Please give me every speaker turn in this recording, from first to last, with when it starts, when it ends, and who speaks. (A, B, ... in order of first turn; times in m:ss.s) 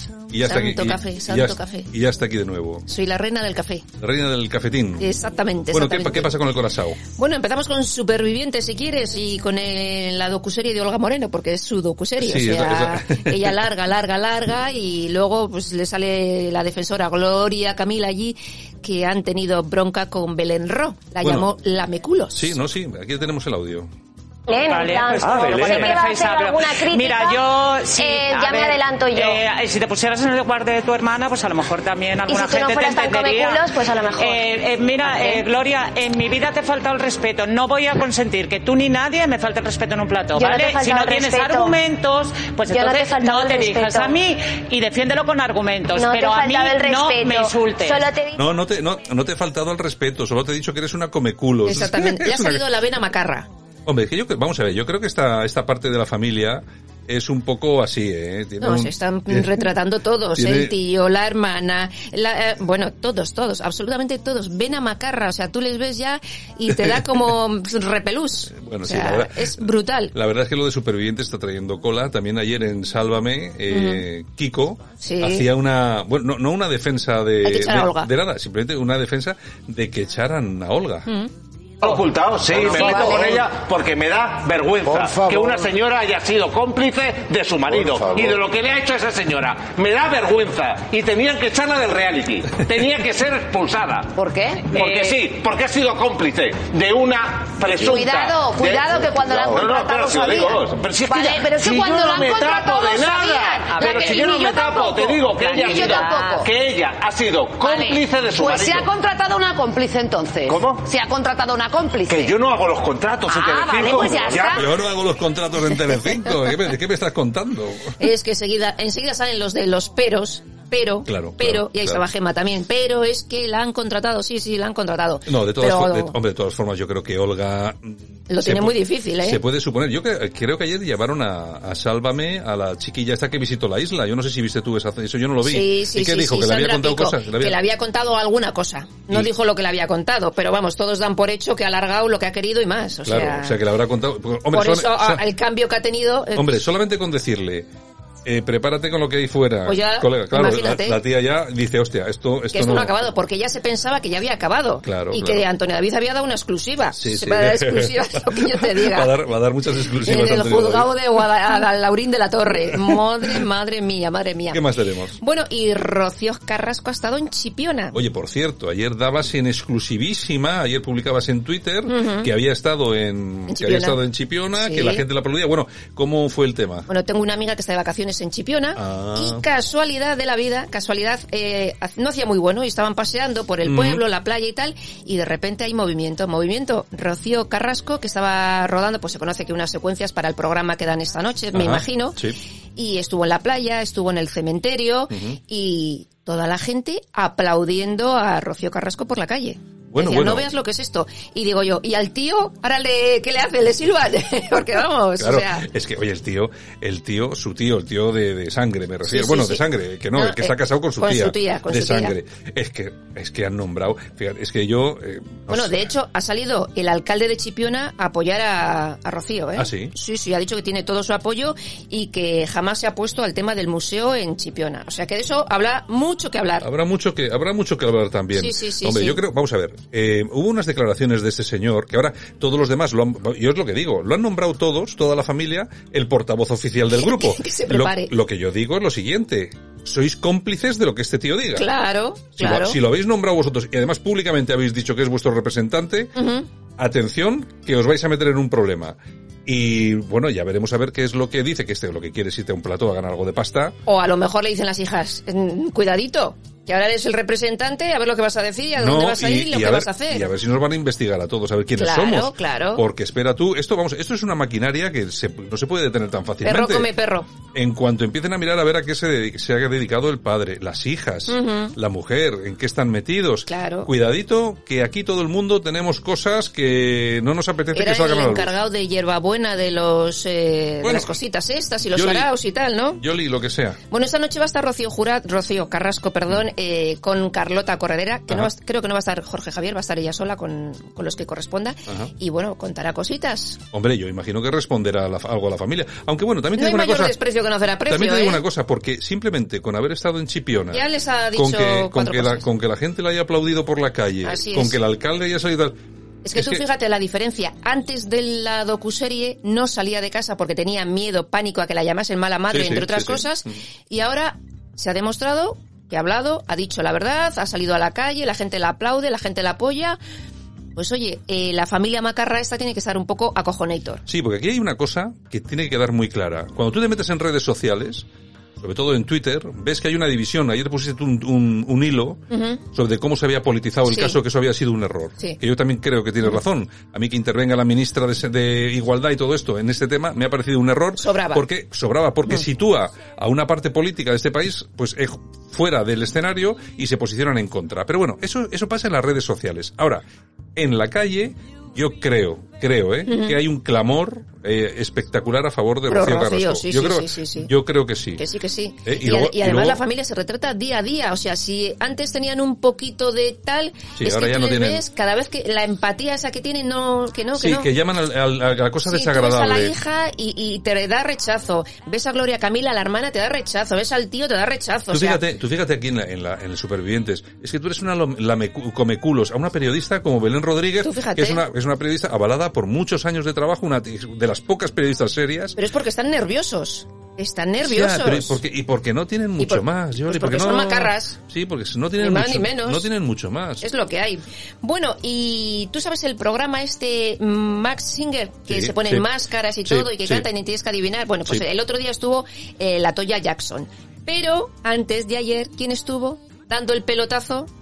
0:00.3-0:02.8 A
0:00.4-0:01.9 B
0:02.9-0:03.8 B
0:04.0-0:05.1 A
0:05.0-0:06.4 B
0:05.7-0:07.0 A
0:07.1-0:22.5 B
0:12.2-0:13.6 A
0:21.2-0:21.5 A
0:22.3-0:23.9 A
0:24.5-0:27.4 C
0:24.6-0:48.0 D
0:25.4-0:25.9 E
0:28.0-0:29.4 C
0:32.3-0:34.4 C
0:35.0-0:35.4 C
0:40.4-0:41.8 C
0:42.7-0:44.1 C
0:46.0-0:48.4 C
0:48.3-0:52.8 A
0:51.6-0:53.5 B
0:53.8-0:59.7 A
0:58.6-1:10.1 B
1:00.3-1:00.7 A
1:08.5-1:21.1 A
1:13.7-1:14.0 B
1:15.0-1:15.5 B
1:17.4-1:18.1 B
1:21.8-1:48.9 E
1:22.6-1:22.8 F
1:22.7-1:23.2 C
1:34.2-1:34.6 C
1:34.7-1:35.2 D
1:37.8-1:46.4 C
1:38.4-1:40.5 F
1:41.4-1:43.6 F
1:43.7-1:44.3 D
1:45.5-1:46.5 D
1:46.1-1:46.4 F
1:47.6-1:48.0 C
1:48.4-1:52.3 F
1:50.4-1:50.9 E
1:50.9-1:52.1 C
1:52.0-1:54.8 E
1:53.3-1:54.4 C
1:53.7-1:54.5 F
1:54.4-1:57.9 A
1:58.0-2:06.2 B
2:01.1-2:02.0 A
2:05.3-2:17.6 A
2:08.3-2:09.4 B
2:15.4-2:23.6 B
2:23.0-2:25.2 A
2:24.5-2:26.6 B
2:26.4-2:27.7 A
2:28.2-2:33.1 A
2:29.6-2:31.0 B
2:32.5-2:39.1 B
2:34.8-2:35.5 A
2:37.0-2:40.9 A
2:40.0-2:44.6 B
2:44.5-2:45.2 A
2:45.2-2:48.0 B
2:47.9-2:56.9 A
2:51.9-2:52.3 B
2:53.5-2:54.0 B
2:54.5-2:55.0 B
2:56.9-3:12.2 B
2:58.8-2:59.4 A
3:03.6-3:04.0 A
3:11.5-3:12.4 A
3:12.8-3:25.7 B
3:15.1-3:15.4 A
3:19.9-3:20.5 A
3:25.2-3:35.9 A
3:29.0-3:32.2 B
3:35.5-3:46.6 B
3:39.6-3:39.9 A
3:46.6-4:01.7 A
3:48.3-3:49.2 B
3:56.9-3:58.1 B
4:01.6-4:02.8 B
4:02.4-4:06.2 A
4:06.2-4:06.5 B
4:06.8-4:13.8 A
4:13.8-4:20.3 B
4:18.8-4:26.9 A
4:21.8-4:22.8 B
4:26.4-4:27.3 B
4:27.5-4:38.6 A
4:31.3-4:31.7 B
4:33.5-4:33.9 B
4:37.7-4:43.0 B
4:40.8-4:41.2 A
4:41.8-4:42.3 A
4:42.9-4:43.8 A
4:43.9-4:53.6 B
4:53.7-4:57.2 A
4:56.5-4:58.4 B
4:57.9-5:05.8 A
5:00.7-5:02.4 B
5:04.2-5:04.8 B
5:06.2-5:20.0 B
5:06.3-5:06.6 A
5:12.5-5:13.3 A
5:20.7-5:24.0 B
5:24.1-5:28.1 A
5:28.6-5:32.2 A
5:32.3-5:32.6 B
5:32.7-5:50.0 A
5:33.9-5:34.2 B
5:41.0-5:41.4 B
5:50.6-5:58.2 A
5:53.1-5:53.4 B
5:55.9-5:57.5 B
5:58.1-6:07.7 B
5:58.8-5:59.8 A
6:04.0-6:04.8 A
6:07.4-6:09.7 A
6:08.9-6:15.2 B
6:14.9-6:25.6 A
6:20.8-6:21.4 B
6:25.6-6:28.4 B
6:27.6-6:33.7 A
6:29.4-6:31.2 B
6:32.0-6:32.9 B
6:33.6-6:47.5 B
6:38.5-6:39.1 A
6:39.6-6:40.2 A